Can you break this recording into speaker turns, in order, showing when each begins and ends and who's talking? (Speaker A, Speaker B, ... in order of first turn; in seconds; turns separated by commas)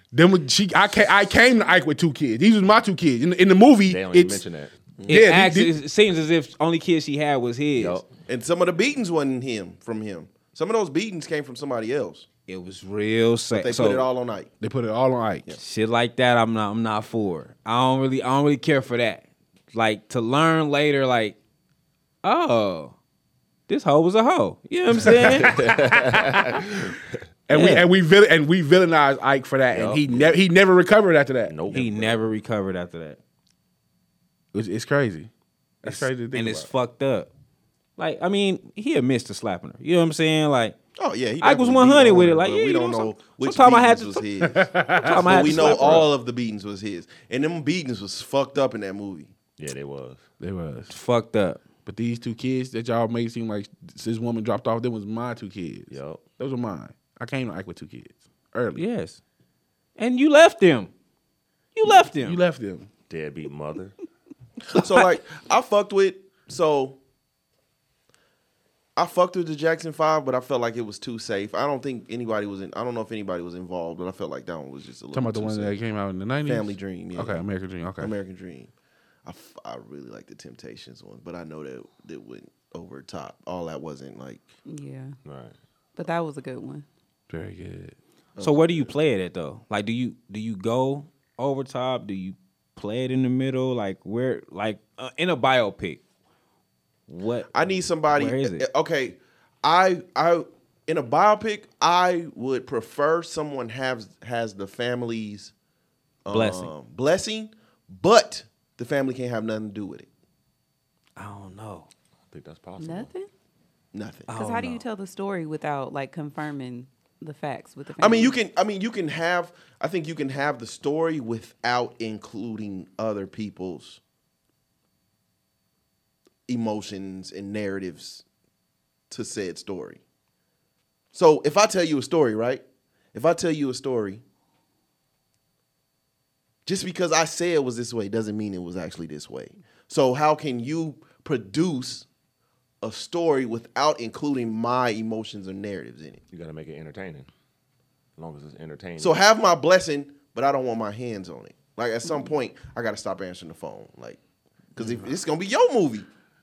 Speaker A: 0.1-4.4, Speaker B: 3.9-4.7, Speaker A: 5.1-5.7, Speaker C: 5.1-8.0, Speaker B: 7.8-8.0, Speaker D: 8.2-12.3, Speaker C: 12.5-14.1, Speaker D: 13.5-14.5, Speaker A: 14.6-15.5, Speaker C: 15.5-21.4, Speaker C: 22.2-22.9, Speaker C: 23.7-25.6, Speaker B: 25.1-27.0, Speaker A: 25.1-26.4, Speaker A: 27.5-31.8, Speaker C: 27.5-27.9, Speaker B: 29.7-30.4, Speaker B: 31.5-32.2, Speaker C: 31.7-33.2, Speaker A: 34.5-35.3, Speaker A: 35.8-36.7, Speaker C: 36.3-37.3, Speaker C: 38.0-40.8, Speaker D: 41.0-49.3, Speaker C: 41.4-44.2, Speaker A: 44.4-45.7, Speaker C: 45.0-46.1, Speaker B: 49.6-50.2, Speaker A: 50.4-50.9, Speaker C: 50.9-51.6, Speaker A: 51.8-58.8, Speaker B: 55.9-56.2, Speaker C: 58.8-59.2, Speaker C: 60.0-60.9, Speaker C: 61.7-62.4, Speaker A: 61.8-62.9, Speaker B: 63.1-64.0, Speaker D: 64.7-67.0, Speaker D: 69.0-75.8, Speaker A: 75.1-78.1, Speaker D: 76.4-77.4, Speaker D: 78.0-78.7, Speaker D: 79.2-84.4, Speaker E: 84.7-85.2, Speaker B: 85.2-85.5, Speaker E: 86.0-86.8, Speaker A: 87.3-88.0, Speaker D: 88.3-88.9, Speaker C: 88.4-96.0, Speaker C: 97.1-97.5, Speaker D: 97.5-105.5, Speaker C: 98.1-98.7, Speaker D: 106.2-110.1, Speaker C: 106.3-106.7, Speaker C: 111.2-111.9, Speaker B: 112.3-113.1, Speaker E: 112.8-113.3, Speaker D: 113.9-114.8, Speaker C: 114.3-114.7, Speaker E: 114.3-118.3, Speaker D: 118.0-124.0, Speaker D: 126.5-128.2, Speaker D: 129.1-130.0, Speaker D: 131.1-132.6, Speaker D: 133.1-134.2, Speaker D: 136.7-142.1, Speaker D: 142.8-146.2, Speaker B: 146.3-147.3, Speaker B: 148.2-149.2, Speaker D: 149.0-154.2, Speaker D: 154.7-156.1